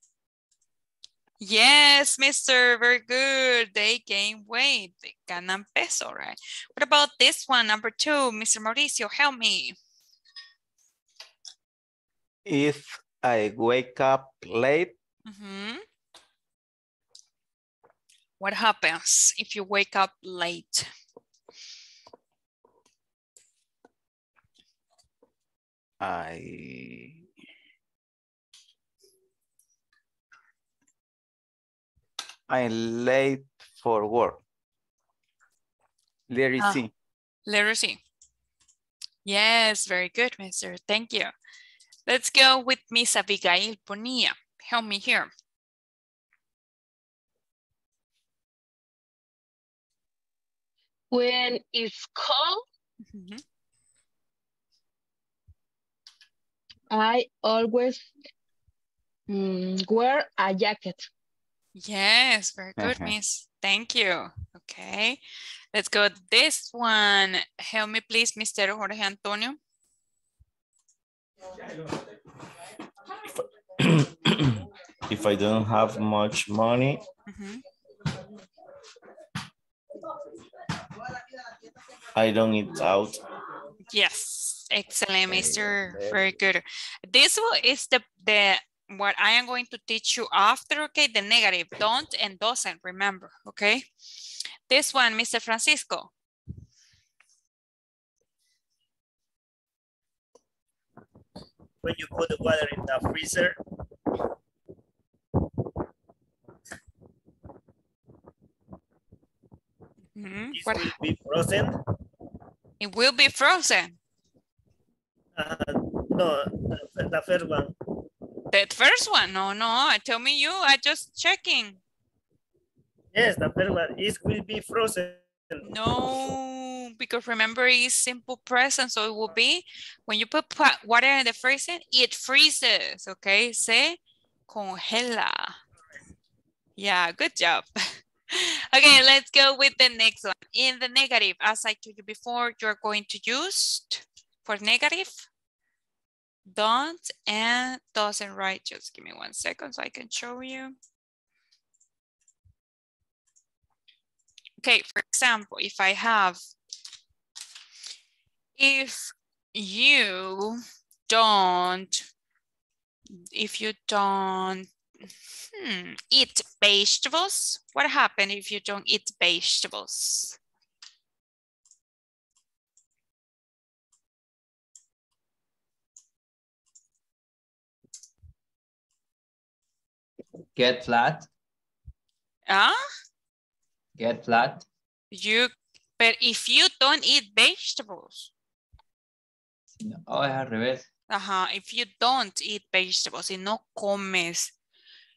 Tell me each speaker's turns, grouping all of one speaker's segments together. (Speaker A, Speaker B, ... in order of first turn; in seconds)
Speaker A: 1.4-9.8, 15.3-15.8, 18.4-20.9, 36.6-36.8, 37.5-38.0, 39.2-41.3, 42.1-45.3, 53.1-53.4, 61.8-65.2, 65.7-69.6, 77.3-77.6, 83.9-93.9, 94.7-96.1, 110.2-110.9, 112.8-114.0, 118.5-121.8, 125.6-134.0, 134.5-135.6, 136.8-145.2, 146.5-150.7, 154.6-156.4, 158.6-162.0, 163.3-164.7, 165.5-170.4, 182.5-182.8, 185.1-188.3, 191.1-194.5
Speaker B: 12.4-14.9, 26.0-27.2, 32.5-34.4, 36.3-36.9, 62.8-63.1, 85.3-86.1
Speaker C: 51.1-52.6, 56.9-58.1, 59.3-61.1
Speaker D: 73.8-77.0, 82.1-83.2
Speaker E: 101.8-103.6, 110.5-111.8, 115.3-117.7, 123.1-125.6
Speaker F: 180.5-181.3, 183.9-184.7, 189.8-190.9